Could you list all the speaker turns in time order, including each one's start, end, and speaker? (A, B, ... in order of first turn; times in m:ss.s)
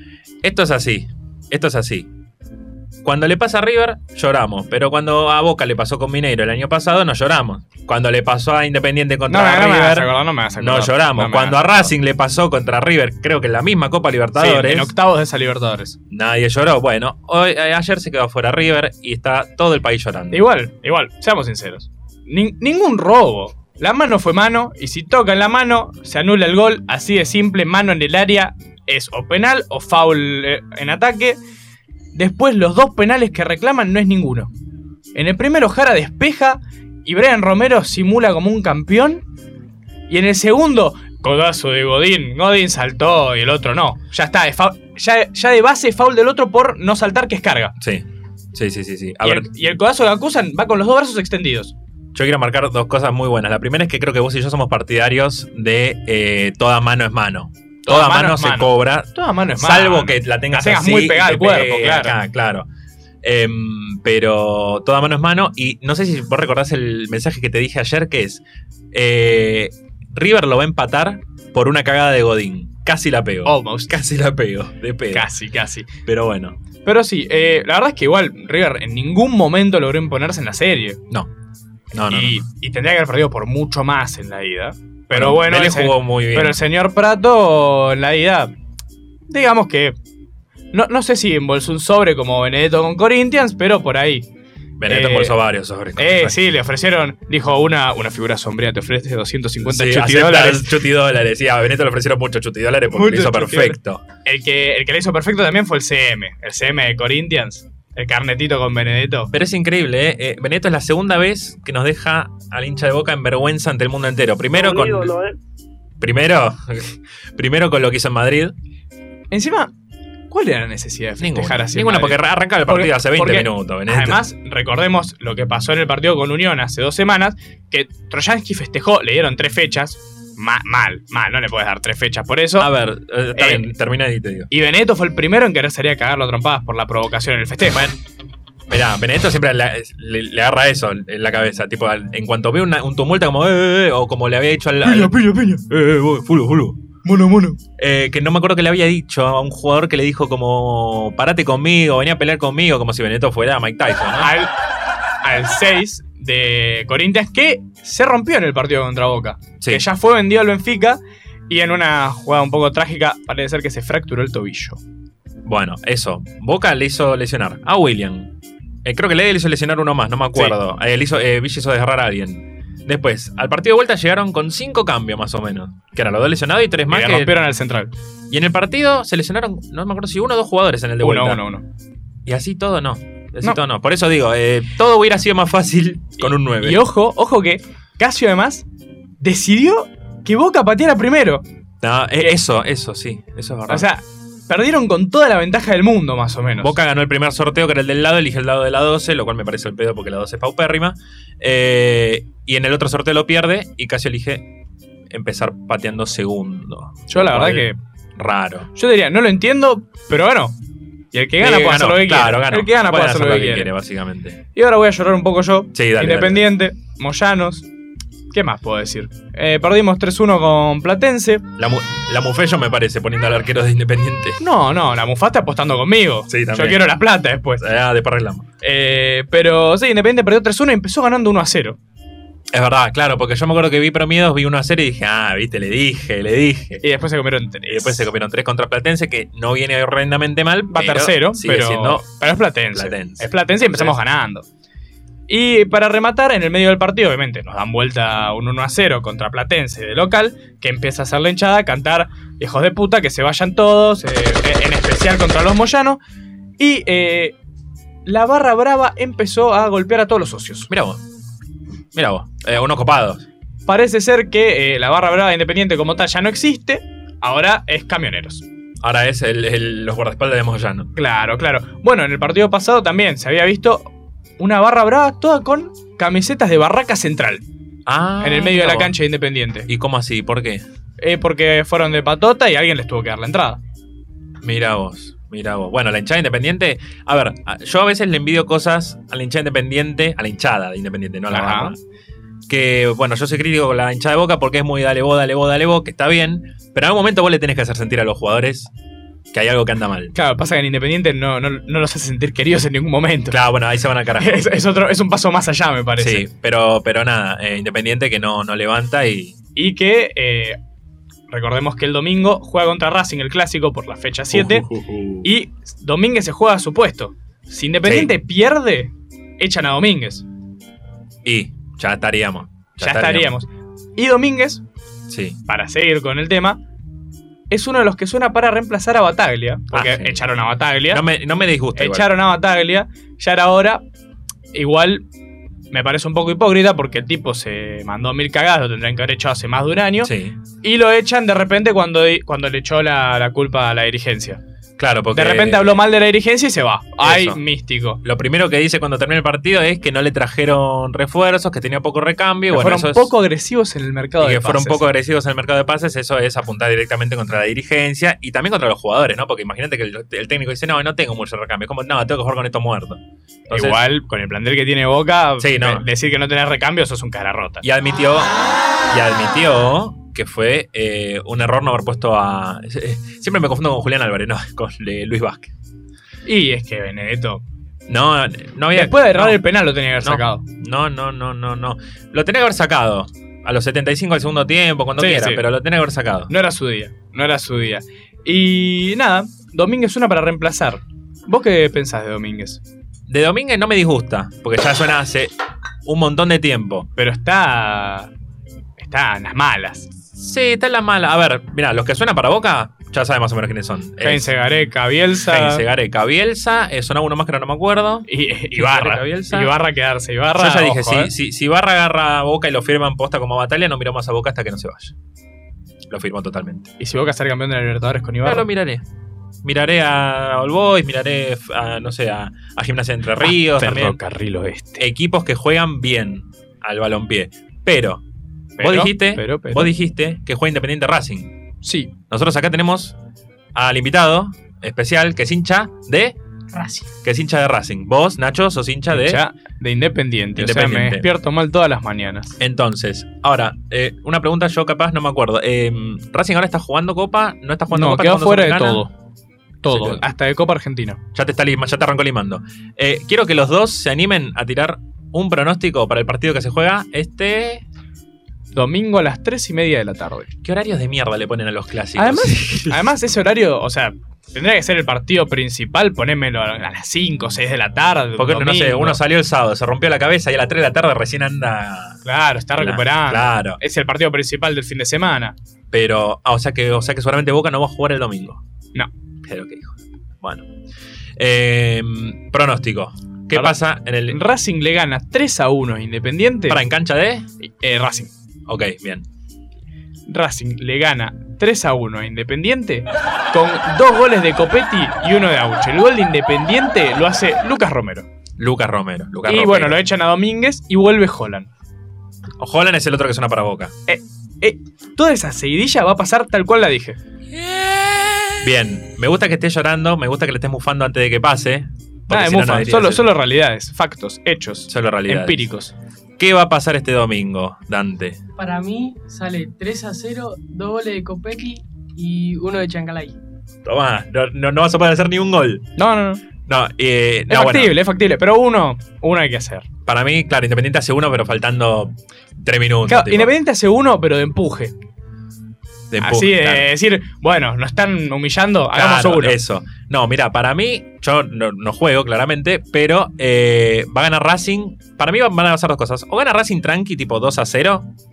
0:00.4-0:02.1 A
0:03.0-0:14.9 A
0:09.3-0:11.9 B
0:14.4-0:16.0 B
0:16.1-0:20.5 A
0:20.3-0:31.4 B
0:32.2-0:34.5 B
0:35.2-0:39.2 B
0:40.1-0:47.8 B
0:47.8-0:49.5 A
0:49.2-0:51.7 B
0:52.1-1:02.7 A
0:57.9-1:02.2 B
1:03.2-1:15.3 A
1:13.5-1:13.9 B
1:15.1-1:15.9 B
1:16.1-1:16.6 A
1:16.8-1:21.0 B
1:21.9-1:22.4 A
1:22.1-1:28.5 B
1:25.1-1:26.6 A
1:29.3-1:30.0 B
1:30.7-1:34.3 B
1:34.8-1:36.4 A
1:34.9-1:35.4 B
1:36.0-1:40.8 B
1:39.6-1:44.0 A
1:42.9-1:49.3 B
1:49.3-1:55.2 A
1:56.0-1:58.5 A
1:59.3-1:59.7 B
2:00.3-2:12.7 B
2:01.2-2:04.2 A
2:12.6-2:14.5 A
2:13.4-2:13.7 B
2:14.5-2:17.8 B
2:17.7-2:18.0 A
2:18.7-2:26.8 A
2:24.8-2:25.6 B
2:27.0-2:27.6 B
2:27.8-2:34.3 A
2:34.2-2:34.5 B
2:35.2-2:44.8 B
2:45.5-2:48.3 A
2:48.8-2:57.3 A
2:56.9-2:57.9 B
2:58.3-3:01.4 A
3:01.0-3:01.6 B
3:02.3-3:06.8 A
3:06.2-3:08.6 B
3:09.2-3:11.4 B
3:11.8-3:13.9 A
3:13.7-3:16.8 B
3:16.6-3:24.5 A
3:25.1-3:28.7 A
3:27.1-3:27.8 B
3:28.8-3:30.6 B
3:31.1-3:33.7 B
3:31.4-3:34.4 A
3:34.6-3:37.7 B
3:35.7-3:36.5 A
3:38.3-3:41.4 B
3:41.6-3:44.4 A
3:44.4-3:47.6 B
3:46.3-3:46.8 A
3:47.6-3:48.4 A
3:48.6-3:51.8 B
3:52.5-3:56.8 A
3:56.8-3:58.1 B
3:57.7-4:02.1 A
4:00.7-4:04.5 B
4:02.7-4:04.0 A
4:05.3-4:16.0 B
4:16.6-4:17.3 B
4:18.1-4:20.7 B
4:20.7-4:21.0 A
4:21.9-4:23.2 A
4:23.7-4:28.4 B
4:28.8-4:30.9 A
4:31.0-4:33.9 B
4:34.4-4:37.4 B
4:37.9-4:39.0 A
4:38.2-4:39.7 B
4:39.7-4:40.6 A
4:41.0-4:43.6 B
4:44.4-4:51.8 A
4:51.3-4:51.7 B
4:52.5-4:58.7 A
4:59.3-5:00.1 A
5:00.2-5:03.4 B
5:03.3-5:04.6 A
5:04.2-5:06.3 B
5:06.0-5:09.4 A
5:09.6-5:10.6 B
5:11.3-5:14.7 B
5:14.3-5:15.3 A
5:15.2-5:20.2 B
5:17.9-5:18.1 A
5:21.2-5:23.3 A
5:22.8-5:24.6 B
5:25.1-5:25.4 A
5:25.5-5:26.6 B
5:27.5-5:31.0 B
5:29.7-5:30.3 A
5:30.9-5:32.1 A
5:31.8-5:33.8 B
5:34.5-5:35.0 B
5:35.7-5:44.4 B
5:40.0-5:40.4 A
5:44.8-5:45.8 A
5:45.1-5:48.0 B
5:47.0-5:47.4 A
5:48.0-5:53.1 A
5:52.5-5:54.9 B
5:54.2-6:03.8 A
6:03.5-6:07.6 B
6:05.4-6:05.8 A
6:07.6-6:15.5 A
6:16.3-6:17.4 B
6:17.9-6:19.4 A
6:18.7-6:20.4 B
6:20.0-6:26.3 A
6:25.0-6:25.5 B
6:26.3-6:32.6 B
6:33.1-6:35.3 A
6:35.9-6:36.9 A
6:37.0-6:38.1 B
6:38.8-6:39.9 B
6:40.2-6:44.3 A
6:44.0-6:45.6 B
6:45.2-6:49.5 A
6:48.1-6:51.1 B
6:50.3-6:55.0 A
6:55.9-6:56.7 A
6:56.8-6:58.5 B
6:58.2-6:58.8 A
6:59.4-7:04.0 A
7:03.2-7:04.8 B
7:04.8-7:08.0 A
7:08.6-7:09.7 B
7:08.6-7:11.3 A
7:11.6-7:11.9 B
7:12.1-7:13.0 A
7:13.6-7:16.2 A
7:16.5-7:16.9 C
7:17.0-7:19.2 A
7:18.9-7:22.4 B
7:20.4-7:21.0 A
7:22.4-7:28.8 A
7:27.7-7:28.9 B
7:29.6-7:31.0 B
7:29.7-7:30.0 A
7:31.1-7:37.6 A
7:38.5-7:40.3 B
7:40.4-7:42.8 A
7:42.0-7:49.0 B
7:48.2-7:52.0 A
7:52.1-7:55.4 B
7:52.6-7:53.6 A
7:55.7-7:58.4 A
7:59.2-8:00.4 A
8:01.2-8:04.2 A
8:04.1-8:06.6 B
8:06.5-8:07.3 A
8:07.4-8:08.1 B
8:08.5-8:09.0 A
8:10.1-8:18.1 B
8:18.4-8:19.8 A
8:19.3-8:21.5 B
8:22.4-8:23.7 A
8:23.9-8:27.0 B
8:27.3-8:33.1 A
8:32.1-8:35.7 B
8:34.7-8:35.5 A
8:36.2-8:38.2 A
8:38.4-8:43.2 C
8:43.6-8:45.7 A
8:45.8-8:46.2 B
8:46.5-8:47.7 A
8:47.3-8:49.7 B
8:49.9-8:53.3 A
8:52.9-8:54.7 B
8:55.9-8:56.7 A
8:56.0-8:59.4 B
8:58.7-9:07.9 A